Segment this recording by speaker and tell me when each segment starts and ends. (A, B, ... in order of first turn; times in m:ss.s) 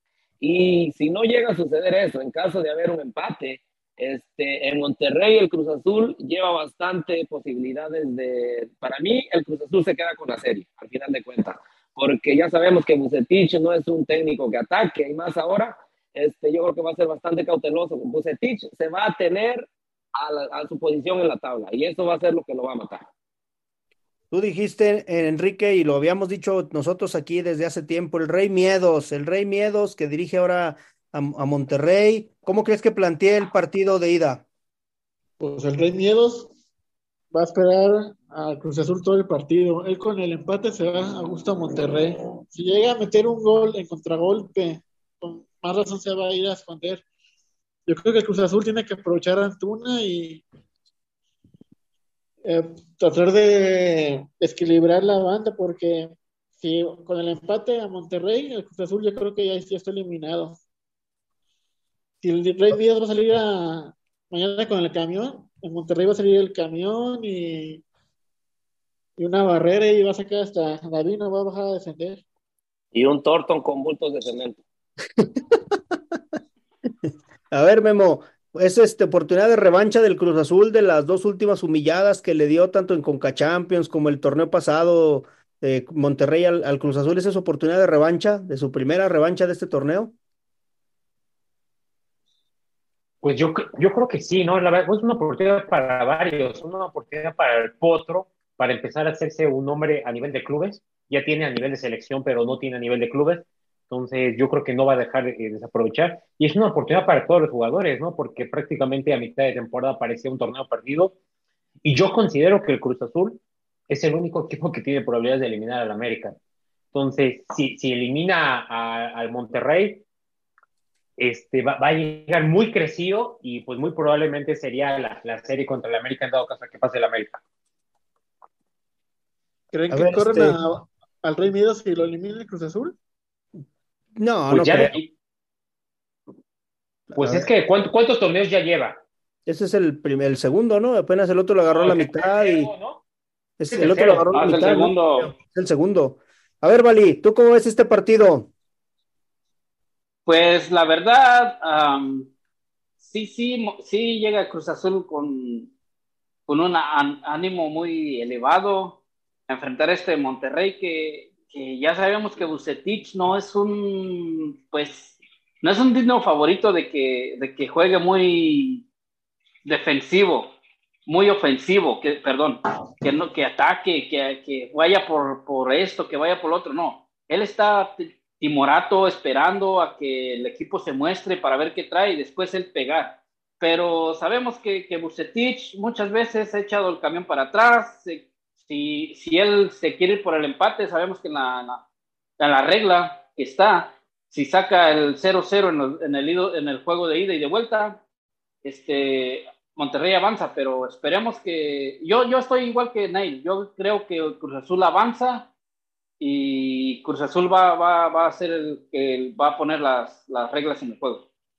0:00.4-0:23.1 A
0:24.3-0:34.4 B
0:35.4-0:36.5 C
0:37.3-0:47.0 C
0:47.9-0:50.4 C
0:52.4-1:00.6 C
1:02.2-1:07.8 C
1:09.2-1:12.2 C
1:12.9-1:14.6 A
1:17.5-1:30.1 B
1:33.2-1:51.1 D
1:51.8-1:56.4 D
1:56.9-2:00.0 D
2:01.2-2:07.4 D
2:09.7-2:13.0 C
2:09.9-2:10.6 B
2:14.2-2:15.0 B
2:14.5-2:15.1 D
2:17.1-2:17.5 B
2:17.2-2:19.0 D
2:19.5-2:22.7 B
2:21.7-2:23.0 D
2:23.6-2:28.5 B
2:23.7-2:24.3 D
2:24.3-2:25.3 E
2:30.3-2:32.3 E
2:33.0-2:35.7 E
2:36.5-2:48.8 E
2:49.6-2:50.5 E
2:51.1-3:11.8 E
3:12.4-3:18.0 E
3:18.6-3:25.5 E
3:26.2-3:31.2 E